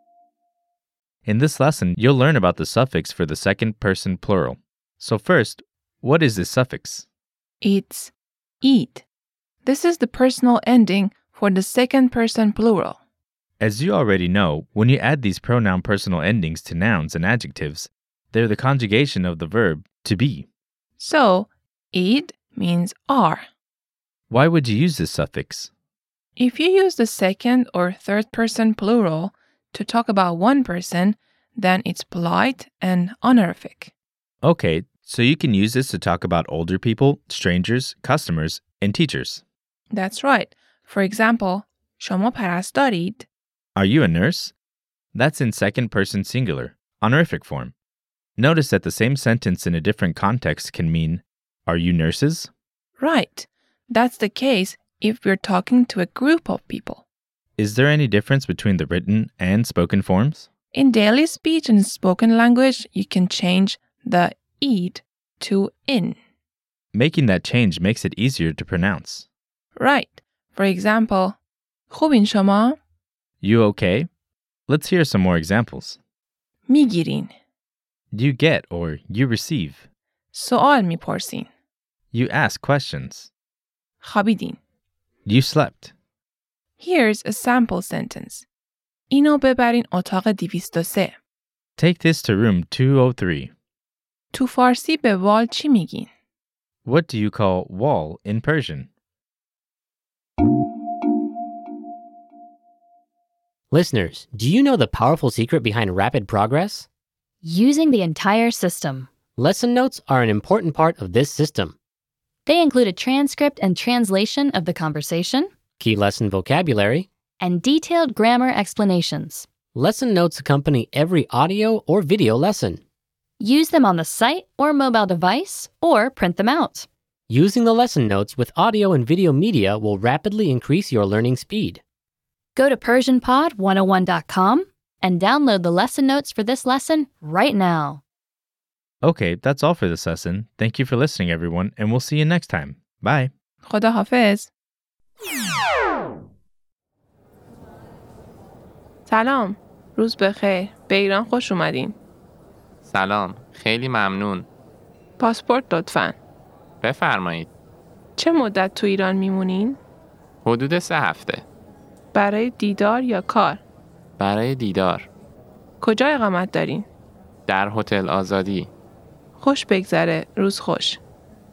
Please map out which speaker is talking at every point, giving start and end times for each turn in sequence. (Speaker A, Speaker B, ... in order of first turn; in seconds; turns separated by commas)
Speaker A: 1.2-7.1, Speaker B: 7.6-9.0, Speaker B: 9.6-13.0, Speaker A: 13.6-20.5, Speaker B: 21.0-23.4, Speaker A: 24.3-25.7, Speaker B: 26.4-33.9, Speaker A: 34.4-39.4, Speaker B: 39.9-43.3, Speaker A: 43.8-44.5, Speaker A: 45.1-47.7, Speaker A: 48.4-52.5, Speaker B: 53.0-57.0, Speaker A: 57.6-60.5, Speaker B: 60.7-66.2, Speaker A: 66.9-69.3, Speaker B: 69.8-71.4, Speaker B: 71.9-72.8, Speaker A: 73.4-74.1, Speaker A: 74.7-76.0, Speaker B: 76.7-77.3, Speaker A: 78.1-79.8, Speaker B: 80.3-81.5, Speaker A: 82.1-83.3, Speaker B: 84.0-84.6, Speaker A: 85.2-85.9, Speaker B: 86.8-88.5, Speaker B: 89.1-91.2, Speaker A: 91.8-93.5, Speaker B: 94.3-96.1, Speaker A: 96.8-98.9, Speaker C: 103.7-106.9, Speaker D: 107.4-109.1, Speaker C: 109.3-111.8, Speaker D: 112.5-115.5, Speaker C: 115.8-117.1, Speaker D: 117.4-119.5, Speaker C: 119.7-122.8, Speaker D: 123.4-126.9, Speaker C: 127.3-131.8, Speaker D: 132.6-138.0, Speaker A: 139.0-143.3, Speaker B: 143.7-144.5, Speaker B: 149.1-151.9, Speaker E: 152.8-154.5, Speaker B: 155.2-156.2, Speaker E: 156.8-157.5, Speaker B: 158.2-159.8, Speaker E: 160.4-161.4, Speaker B: 162.1-163.6, Speaker E: 164.2-165.1, Speaker B: 165.8-166.9, Speaker E: 167.5-168.7, Speaker B: 169.4-171.0